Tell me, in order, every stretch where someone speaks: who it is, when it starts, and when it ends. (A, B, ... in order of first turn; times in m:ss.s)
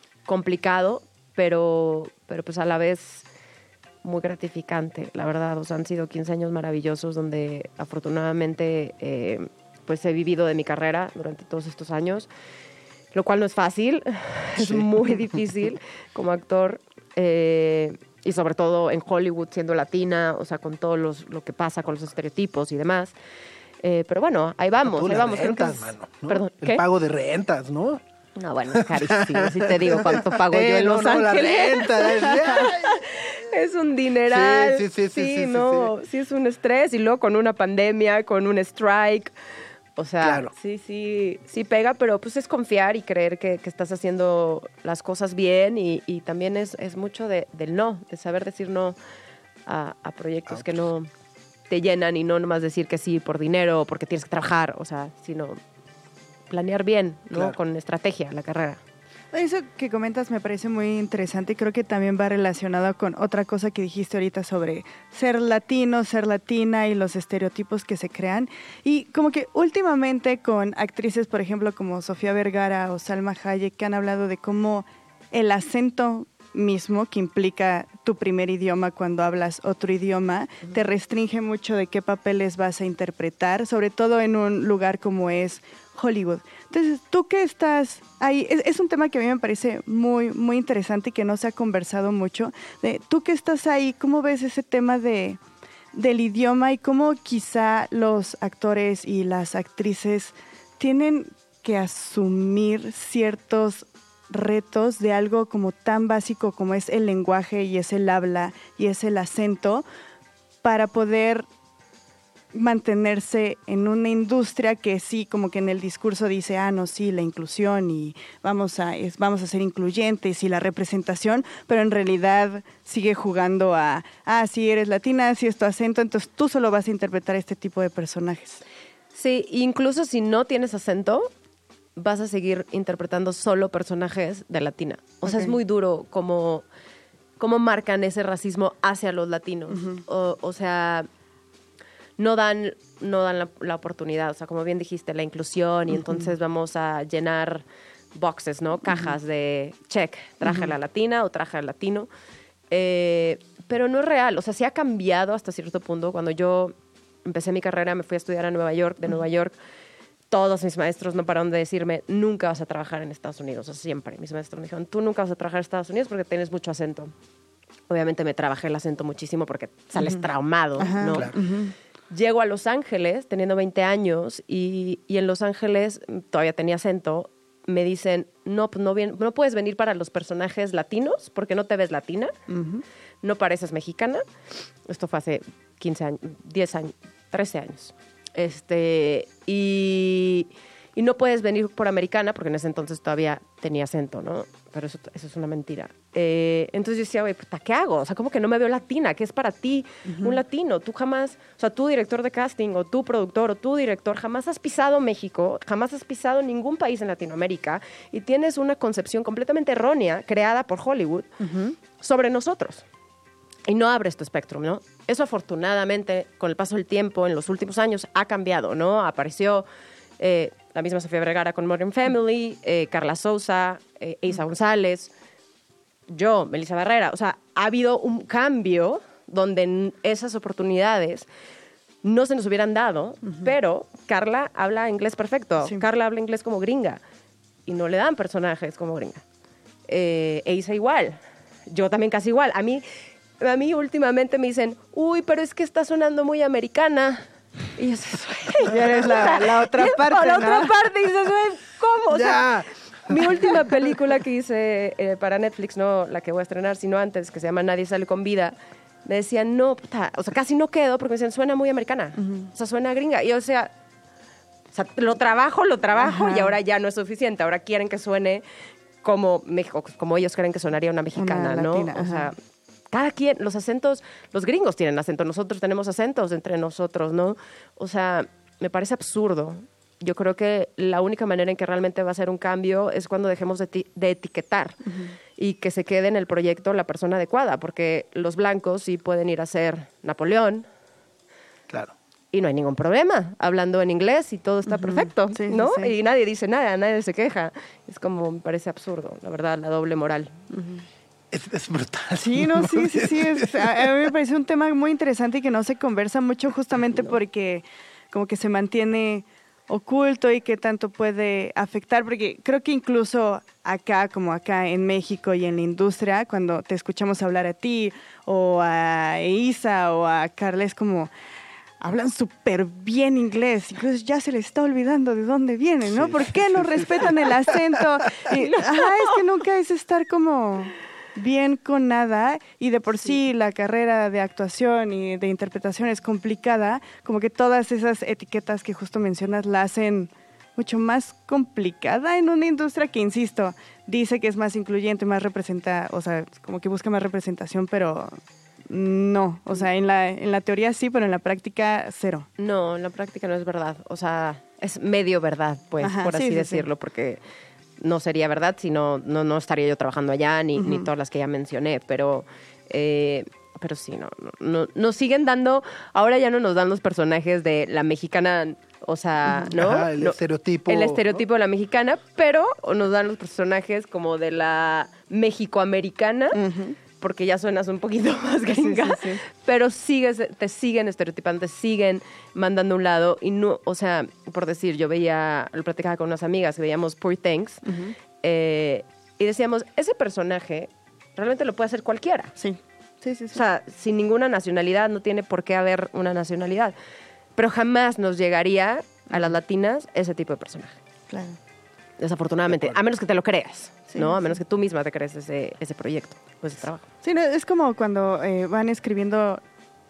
0:00.2-0:03.2 A
0:04.0-0:12.3 A
0:13.1-0:23.1 A
0:14.6-0:14.9 B
0:23.8-0:26.8 A
0:24.8-0:28.0 B
0:28.4-0:39.3 A
0:28.7-0:33.0 B
0:34.2-0:35.9 B
0:40.0-0:49.0 A
0:40.2-0:40.5 B
0:49.6-0:51.1 A
0:51.7-0:55.6 A
0:56.5-0:58.8 A
0:59.3-1:35.4 C
1:35.9-1:49.8 C
1:50.6-1:51.5 C
1:52.5-2:08.6 C
2:09.1-2:11.3 A
2:12.0-2:16.6 A
2:15.2-2:15.5 C
2:17.4-2:21.1 A
2:19.7-2:20.0 C
2:22.2-2:32.1 A
2:26.0-2:26.3 C
2:28.8-2:29.1 C
2:30.4-2:30.7 C
2:32.7-2:39.5 A
2:40.3-2:47.1 A
2:47.9-2:51.4 A
2:50.0-2:50.2 C
2:50.8-2:51.7 C
2:52.1-3:02.3 A
3:02.5-3:02.8 C
3:03.2-3:04.3 A
3:04.8-3:31.3 A
3:20.0-3:20.4 C
3:31.4-3:31.8 C
3:31.9-3:32.8 A
3:33.7-3:39.7 A
3:40.2-3:45.1 A
3:46.1-3:51.3 A
3:52.0-3:57.0 A
3:57.6-3:59.2 A
3:59.9-4:02.9 A
4:03.4-4:07.2 A
4:07.8-4:23.7 A
4:08.6-4:10.7 C
4:12.1-4:13.2 B
4:22.2-4:22.5 C
4:24.7-4:28.4 A
4:26.0-4:26.5 C
4:29.0-4:32.4 A
4:31.1-4:32.3 C
4:32.9-4:44.8 A
4:44.8-4:45.1 C
4:45.4-4:50.7 A
4:52.3-5:00.4 A
4:54.7-4:55.9 C
5:00.5-5:00.8 C
5:01.3-5:03.8 B
5:02.1-5:21.1 C
5:21.8-5:52.3 C
5:25.8-5:27.3 B
5:52.4-5:57.2 A
5:55.8-5:56.7 C
5:57.8-6:16.4 A
6:00.6-6:00.9 C
6:09.5-6:11.2 B
6:16.3-6:16.8 C
6:17.0-6:27.6 A
6:18.5-6:19.2 C
6:27.6-6:27.9 C
6:28.2-6:32.3 A
6:32.4-6:33.4 C
6:33.3-6:36.7 A
6:37.4-6:40.8 A
6:41.1-6:41.4 C
6:42.0-6:46.8 A
6:42.5-6:42.8 B
6:43.9-6:44.2 C
6:47.0-6:49.4 C